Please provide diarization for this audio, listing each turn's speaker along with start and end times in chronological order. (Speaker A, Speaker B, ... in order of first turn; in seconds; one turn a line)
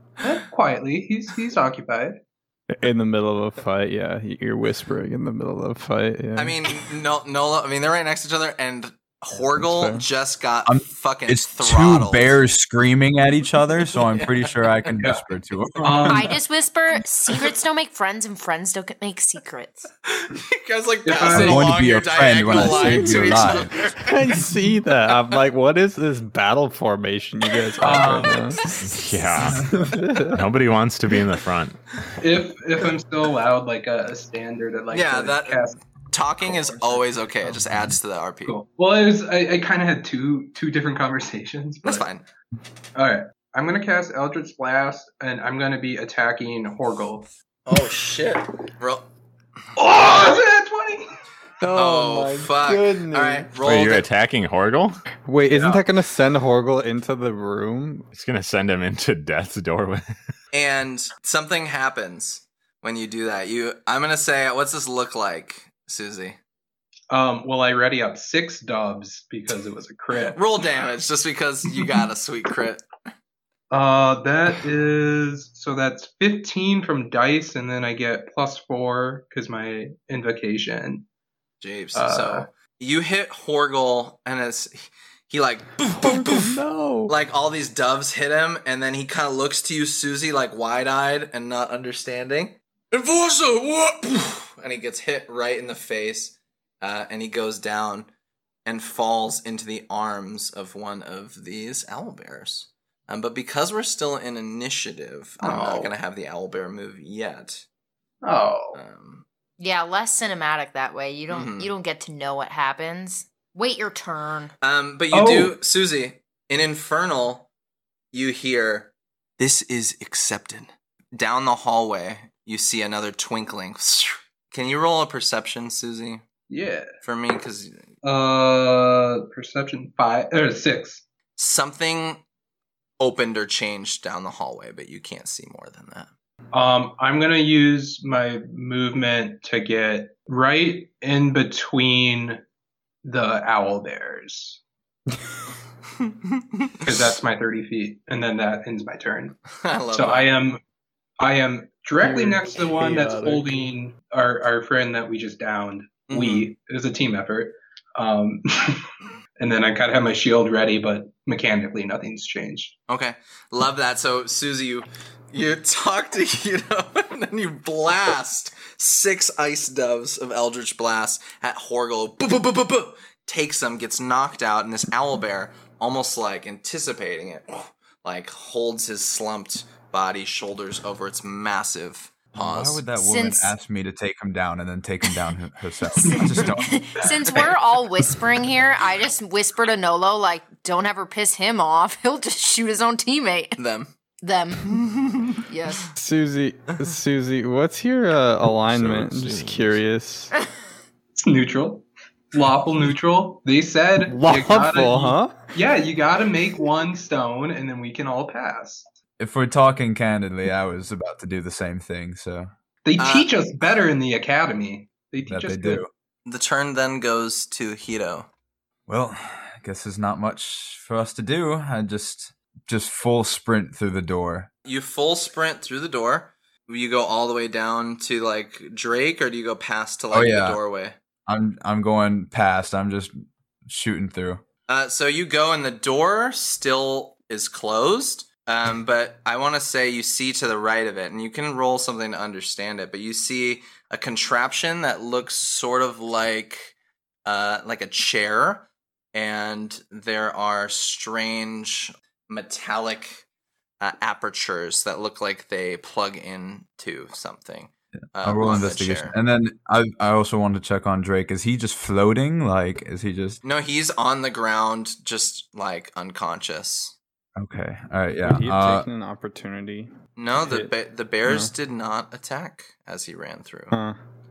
Speaker A: 0.2-2.2
Speaker B: 2.7-6.8
Speaker C: 6.3-12.4
Speaker B: 9.5-10.0
Speaker D: 10.7-16.2
Speaker C: 14.2-14.7
Speaker A: 15.0-15.2
Speaker A: 15.8-16.4
Speaker E: 16.1-19.9
Speaker C: 20.1-24.2
Speaker A: 21.1-21.8
Speaker D: 21.3-23.7
Speaker B: 22.5-30.4
Speaker A: 27.8-28.6
Speaker F: 28.8-32.1
Speaker A: 32.2-35.8
Speaker C: 34.9-38.6
Speaker A: 38.4-42.1
Speaker C: 41.9-42.3
Speaker A: 42.9-47.3
Speaker C: 47.6-49.1
Speaker A: 49.8-51.1
Speaker C: 49.9-50.4
Speaker B: 51.6-53.5
Speaker C: 51.7-54.1
Speaker F: 53.6-55.0
Speaker B: 55.3-58.1
Speaker C: 55.5-55.8
Speaker F: 58.1-60.0
Speaker C: 60.5-66.4
Speaker A: 67.1-70.4
Speaker C: 70.3-72.8
Speaker A: 73.7-81.0
Speaker C: 81.6-86.6
Speaker A: 81.9-82.5
Speaker B: 86.0-87.1
Speaker C: 87.1-98.1
Speaker C: 98.6-107.7
Speaker A: 105.4-105.9
Speaker A: 108.2-108.8
Speaker C: 108.7-109.2
Speaker E: 109.6-114.5
Speaker C: 111.3-111.7
Speaker C: 114.6-117.5
Speaker A: 115.1-115.6
Speaker C: 118.1-126.2
Speaker A: 126.5-126.9
Speaker C: 127.0-127.9
Speaker A: 128.0-131.0
Speaker C: 131.4-132.2
Speaker C: 133.0-136.1
Speaker A: 136.5-142.4
Speaker A: 143.1-144.6
Speaker C: 146.6-146.9
Speaker A: 146.8-149.4
Speaker C: 149.6-150.3
Speaker A: 149.9-150.6
Speaker A: 151.2-158.8
Speaker B: 152.0-153.7
Speaker C: 156.1-156.5
Speaker A: 159.4-162.8
Speaker C: 162.9-182.8
Speaker D: 182.3-186.9
Speaker E: 183.0-183.6
Speaker E: 186.1-193.6
Speaker C: 193.6-193.9
Speaker E: 194.2-194.8
Speaker C: 194.7-195.4
Speaker E: 195.4-195.9
Speaker B: 195.9-200.3
Speaker F: 198.7-199.8
Speaker A: 201.2-208.9
Speaker B: 204.1-205.5
Speaker F: 204.7-205.1
Speaker D: 209.2-212.5
Speaker A: 212.8-215.8
Speaker C: 213.0-213.3
Speaker D: 215.3-215.9
Speaker C: 216.3-218.3
Speaker D: 218.9-224.5
Speaker C: 224.7-231.0
Speaker D: 230.1-230.6
Speaker D: 231.3-234.4
Speaker C: 234.7-246.7
Speaker C: 247.3-253.3
Speaker C: 253.8-259.1
Speaker D: 258.2-263.4
Speaker C: 263.4-266.9
Speaker D: 267.4-268.9
Speaker B: 268.2-270.7
Speaker C: 270.2-273.8
Speaker B: 271.2-271.5
Speaker B: 273.7-274.0